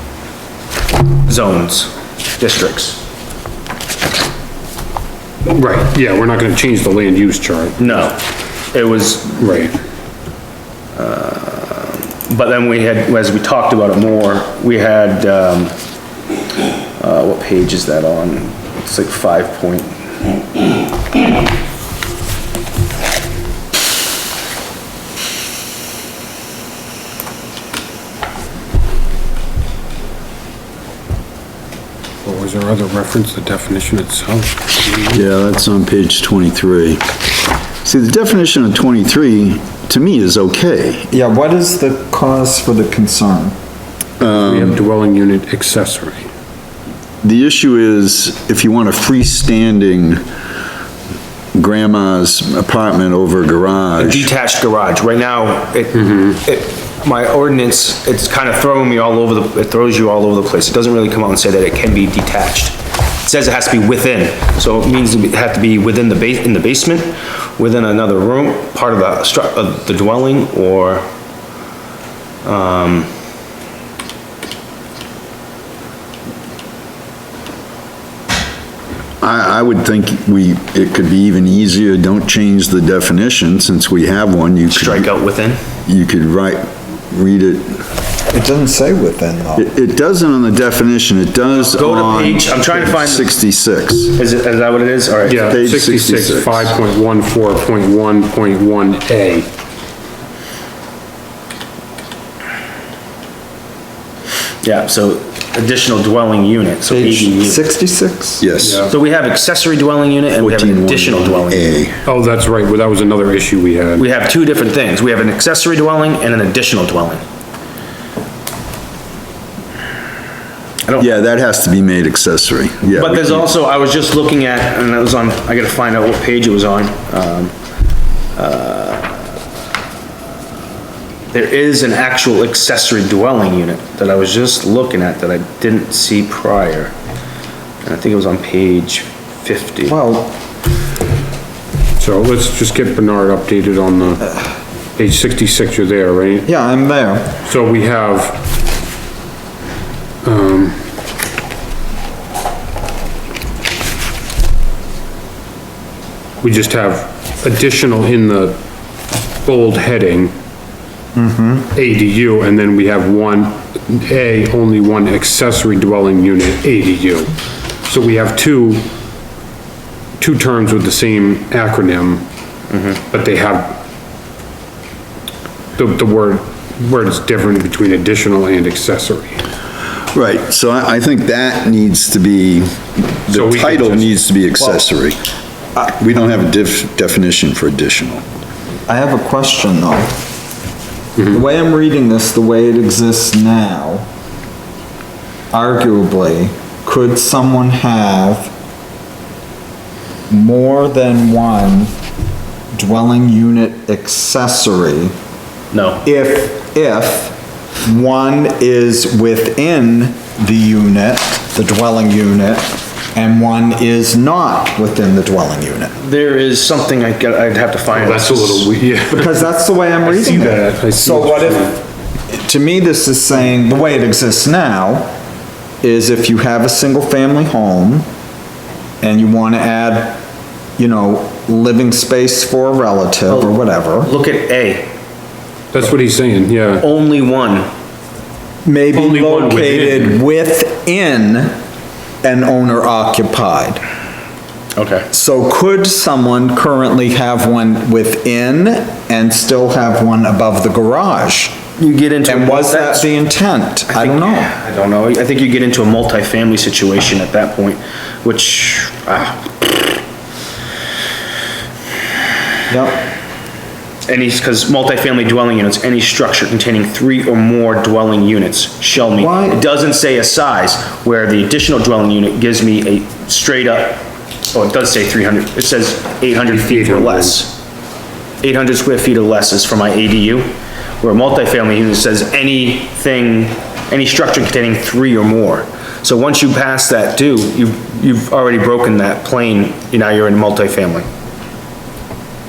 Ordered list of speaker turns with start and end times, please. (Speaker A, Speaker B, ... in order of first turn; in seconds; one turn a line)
Speaker A: 1.2-3.0
Speaker B: 5.5-8.0
Speaker A: 7.8-8.2
Speaker A: 8.7-9.6
Speaker B: 9.4-9.7
Speaker A: 10.9-15.7
Speaker A: 17.0-20.1
Speaker B: 32.2-34.9
Speaker C: 35.1-37.0
Speaker C: 37.8-41.1
Speaker D: 41.1-43.5
Speaker C: 44.2-44.8
Speaker B: 44.3-46.3
Speaker C: 47.2-50.2
Speaker C: 51.5-54.3
Speaker A: 54.0-71.0
Speaker A: 72.4-73.1
Speaker C: 79.2-85.1
Speaker A: 84.7-85.6
Speaker C: 85.9-87.8
Speaker D: 88.3-89.7
Speaker C: 89.6-94.2
Speaker A: 91.5-93.3
Speaker A: 94.2-95.6
Speaker B: 95.3-99.5
Speaker C: 95.5-96.7
Speaker A: 104.6-107.6
Speaker D: 106.9-108.5
Speaker C: 108.4-108.9
Speaker B: 108.6-108.9
Speaker A: 108.8-111.8
Speaker C: 110.4-112.0
Speaker B: 112.0-114.0
Speaker A: 114.0-117.2
Speaker A: 120.9-121.1
Speaker C: 121.0-123.5
Speaker A: 123.0-127.5
Speaker A: 128.4-129.2
Speaker A: 131.3-136.9
Speaker A: 137.8-140.0
Speaker D: 139.9-140.4
Speaker B: 142.0-144.3
Speaker B: 145.0-146.5
Speaker D: 146.5-147.4
Speaker B: 147.4-148.4
Speaker B: 150.2-150.8
Speaker B: 156.4-158.6
Speaker B: 159.4-160.3
Speaker D: 161.2-161.7
Speaker B: 161.7-167.3
Speaker B: 167.8-168.9
Speaker B: 170.2-172.2
Speaker A: 172.7-173.0
Speaker B: 173.1-173.8
Speaker B: 175.8-179.4
Speaker C: 180.1-185.2
Speaker B: 183.3-184.2
Speaker C: 185.9-188.2
Speaker D: 188.9-190.1
Speaker D: 191.2-194.1
Speaker D: 195.5-198.5
Speaker D: 200.3-201.9
Speaker D: 202.8-205.1
Speaker A: 205.7-206.1
Speaker D: 206.1-215.9
Speaker A: 216.0-218.7
Speaker B: 217.9-219.3
Speaker D: 219.1-221.8
Speaker B: 220.1-221.8
Speaker D: 222.3-225.1
Speaker D: 225.8-228.1
Speaker D: 229.0-230.2
Speaker D: 230.8-234.1
Speaker A: 233.3-234.9
Speaker B: 235.7-236.8
Speaker A: 236.8-237.7
Speaker D: 238.7-241.6
Speaker B: 238.9-240.2
Speaker D: 242.2-243.8
Speaker A: 244.8-245.1
Speaker D: 245.1-251.6
Speaker A: 251.8-253.1
Speaker D: 252.3-254.5
Speaker A: 253.9-260.0
Speaker D: 262.7-263.0
Speaker A: 264.1-277.6
Speaker D: 269.2-269.6
Speaker B: 276.5-277.4
Speaker A: 278.4-291.1